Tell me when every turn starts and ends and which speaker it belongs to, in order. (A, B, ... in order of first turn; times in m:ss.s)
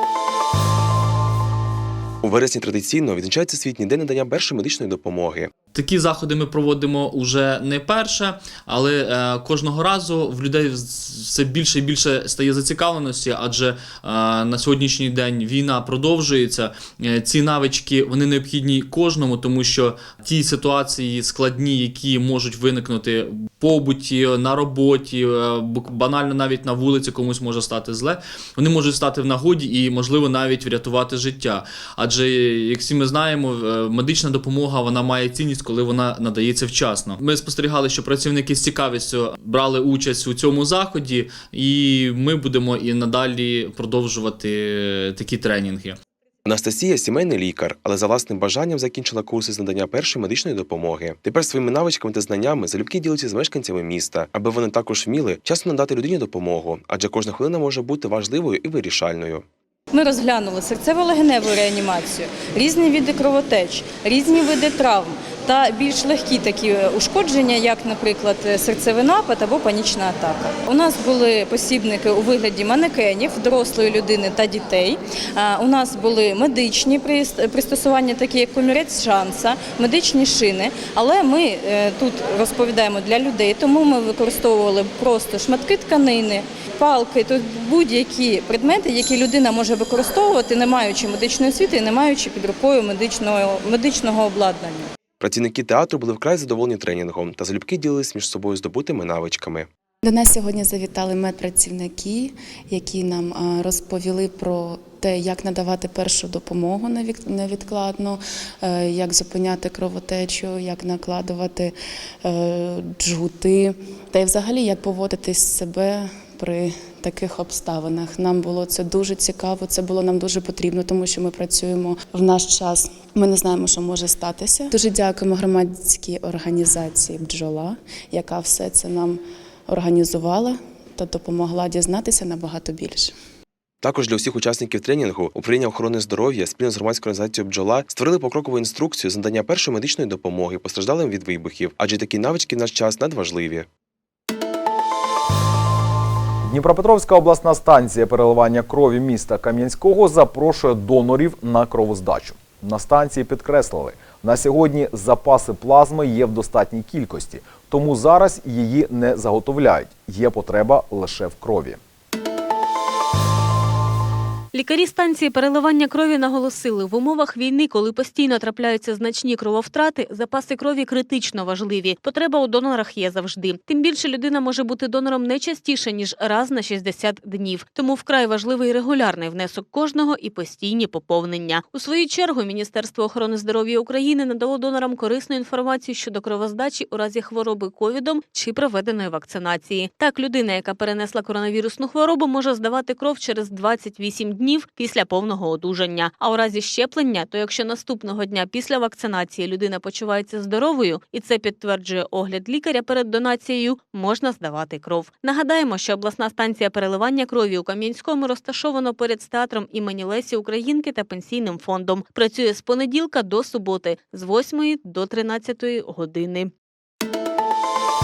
0:02.2-0:05.5 A
0:05.7-0:46.0 B
0:46.4-0:59.4 A
0:59.9-1:34.9 C
1:35.2-1:39.7 A
1:40.0-1:51.7 D
1:52.2-2:13.1 D
2:13.8-2:23.7 A
2:26.4-2:41.8 E
2:44.5-3:36.5 F